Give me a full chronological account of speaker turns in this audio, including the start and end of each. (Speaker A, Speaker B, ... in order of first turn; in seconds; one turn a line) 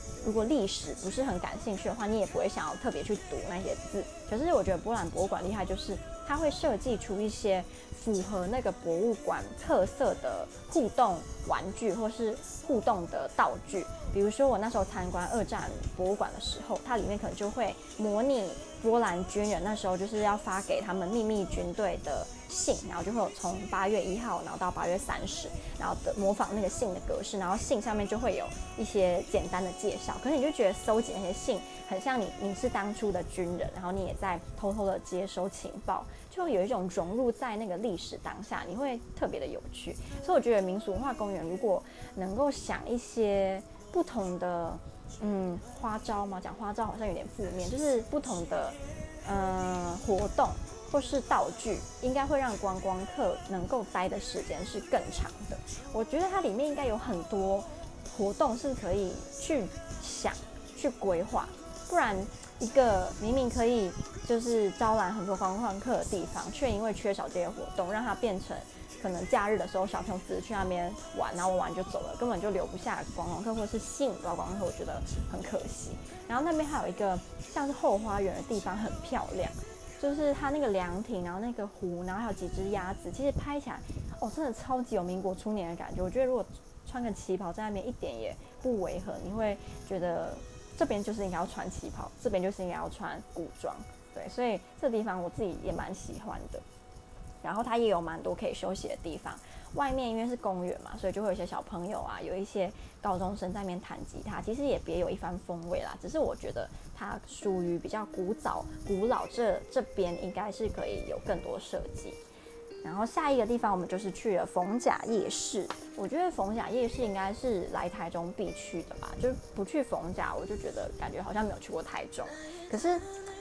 Speaker A: 0.2-96.6
Speaker A: 97.4-112.2
Speaker A: 112.8-123.0